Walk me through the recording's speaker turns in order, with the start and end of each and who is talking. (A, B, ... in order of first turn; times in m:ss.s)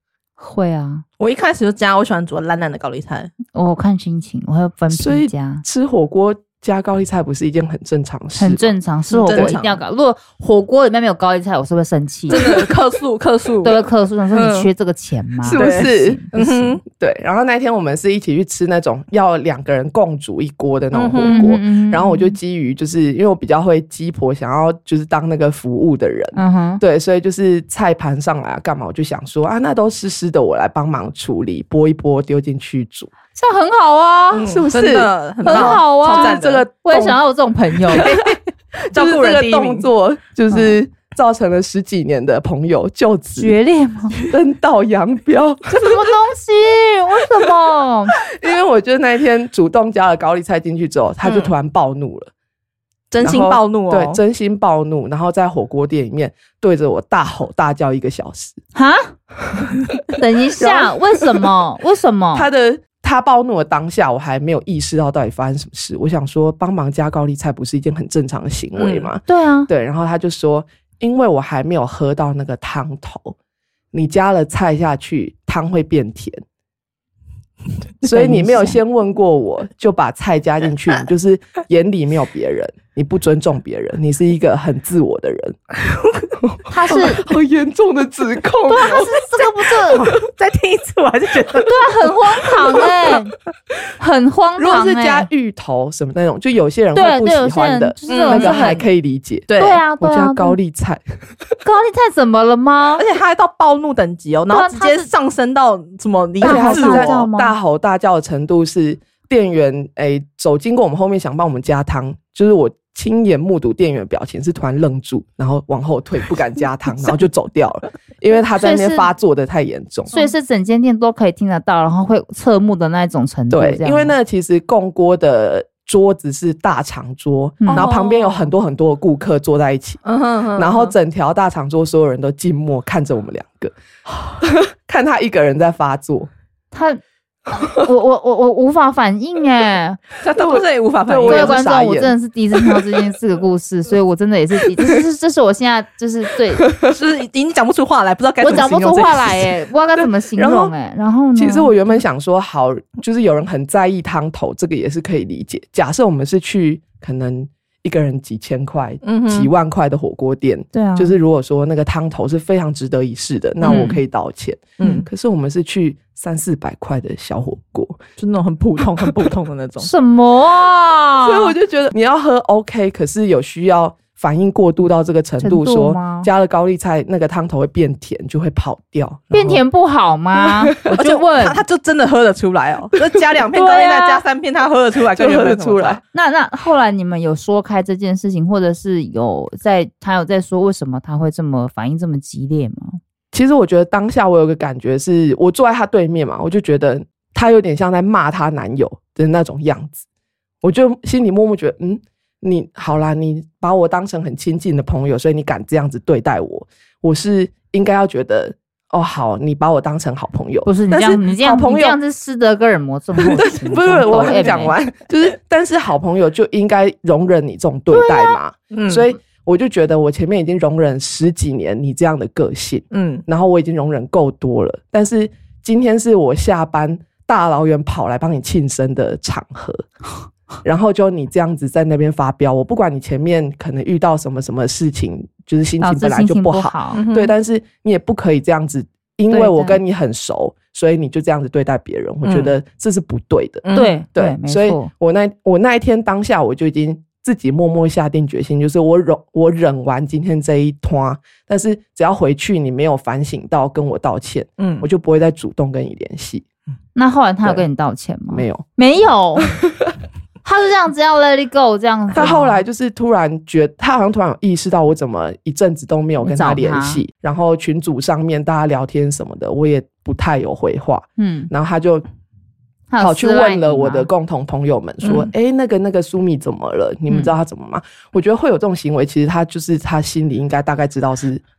0:00.4-0:01.0 A
0:01.2-0:03.3 B
0:03.5-0:05.6 A
0:04.9-0:08.7 C
0:08.4-0:12.6 A
0:09.1-0:09.8 B
0:09.3-0:09.6 C
0:12.3-0:14.7 B
0:13.6-0:16.7 A
0:15.4-0:16.2 C
0:15.5-0:16.8 B
0:16.8-0:33.1 C
0:20.9-0:21.4 B
0:21.2-0:22.3 A
0:26.4-0:26.8 A
0:33.3-0:34.5 A
0:34.3-0:36.6 B
0:34.4-0:37.2 C
0:35.4-0:38.1 A
0:37.9-0:38.4 C
0:37.9-0:38.4 B
0:38.9-0:39.9 B
0:38.9-0:43.5 C
0:40.5-0:40.8 A
0:43.4-0:44.2 A
0:44.3-0:46.0 C
0:45.7-0:48.1 A
0:48.2-0:52.3 C
0:51.2-0:51.5 B
0:53.1-0:54.2 B
0:53.2-0:58.6 C
0:58.7-0:59.1 A
1:00.1-1:02.5 A
1:00.6-1:01.4 C
1:02.3-1:13.3 C
1:08.8-1:09.1 B
1:09.2-1:09.7 A
1:13.9-1:16.4 C
1:18.0-1:25.6 C
1:18.0-1:18.8 A
1:25.8-1:26.3 B
1:26.4-1:29.1 C
1:26.7-1:27.3 A
1:28.7-1:30.1 A
1:29.4-1:33.2 B
1:31.6-1:33.3 A
1:34.0-1:35.3 A
1:34.6-1:39.5 C
1:36.9-1:38.8 A
1:38.1-1:38.8 B
1:39.5-1:39.8 B
1:39.6-1:40.6 A
1:40.0-1:41.0 C
1:41.6-1:43.0 A
1:43.0-1:47.2 B
1:44.5-1:45.1 A
1:46.4-1:47.5 A
1:46.4-2:00.1 C
1:58.6-1:59.1 A
2:00.1-2:04.1 A
2:03.5-2:10.0 C
2:07.6-2:07.9 A
2:07.7-2:08.4 B
2:10.0-2:10.9 B
2:10.5-2:13.7 C
2:14.4-2:16.3 C
2:16.7-2:20.0 A
2:20.2-2:21.6 B
2:20.3-2:22.1 C
2:21.3-2:26.7 A
2:26.6-2:26.9 C
2:26.9-2:29.5 B
2:28.4-2:31.8 A
2:30.0-2:30.7 C
2:31.3-2:48.0 C
2:39.0-2:39.5 B
2:40.7-2:41.1 A
2:43.6-2:44.0 A
2:43.6-2:43.9 B
2:44.8-2:45.1 B
2:48.2-2:49.9 B
2:49.8-2:51.5 A
2:51.2-2:59.6 C
2:55.4-2:56.3 A
2:59.3-3:01.6 A
3:00.4-3:00.7 C
3:00.9-3:06.0 B
3:03.6-3:04.0 C
3:03.6-3:04.1 A
3:05.1-3:06.0 C
3:06.1-3:13.0 A
3:13.3-3:20.0 C
3:20.6-3:32.0 C
3:30.6-3:34.8 A
3:33.2-3:49.8 C
3:37.9-3:38.4 A
3:38.7-3:39.1 B
3:42.9-3:43.2 B
3:50.6-4:16.4 C
3:55.8-3:57.0 A
3:56.9-3:57.3 B
3:59.3-3:59.8 A
4:02.2-4:02.5 B
4:03.6-4:04.0 B
4:03.7-4:04.9 A
4:14.6-4:14.9 B
4:17.0-4:19.6 A
4:18.3-4:18.6 C
4:19.4-4:19.9 C
4:20.4-4:22.6 A
4:22.1-4:32.0 C
4:26.2-4:27.0 A
4:31.2-4:31.5 A
4:32.9-4:34.1 A
4:33.0-4:41.4 C
4:35.0-4:35.3 B